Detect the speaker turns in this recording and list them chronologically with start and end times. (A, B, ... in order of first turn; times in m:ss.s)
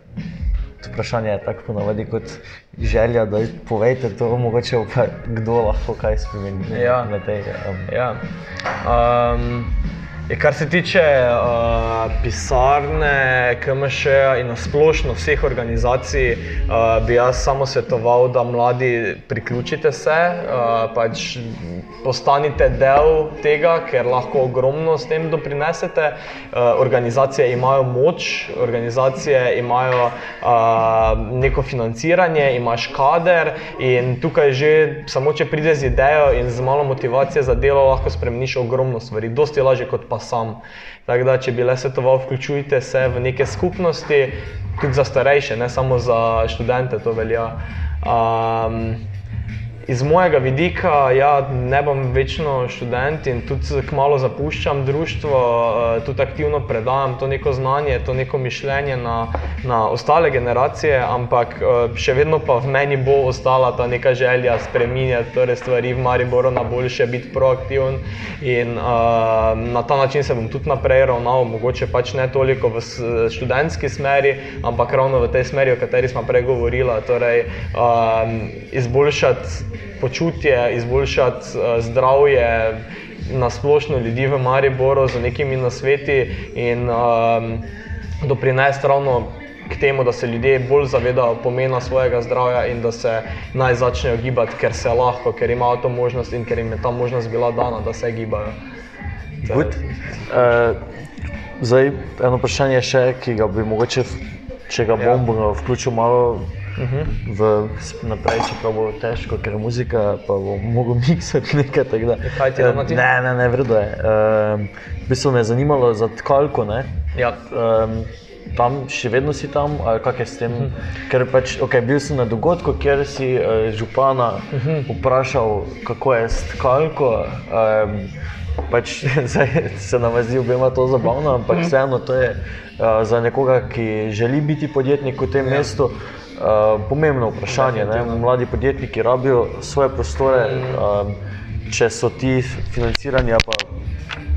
0:00.8-0:07.9 A
0:06.7-0:07.1 B
0:07.9-0:08.2 B
0:08.8-0:09.7 B
0:10.3-0:49.0 B
0:49.9-1:27.7 B
1:28.2-1:38.6 B
1:39.4-1:40.8 A
1:39.4-1:40.6 B
1:41.6-1:46.5 A
1:45.0-1:45.2 B
1:46.8-1:47.2 B
1:47.1-2:08.1 A
1:52.2-1:53.1 B
1:57.2-1:57.4 B
2:04.6-2:04.9 B
2:08.7-2:21.2 A
2:17.5-2:18.3 B
2:20.3-2:20.8 B
2:21.7-2:23.7 A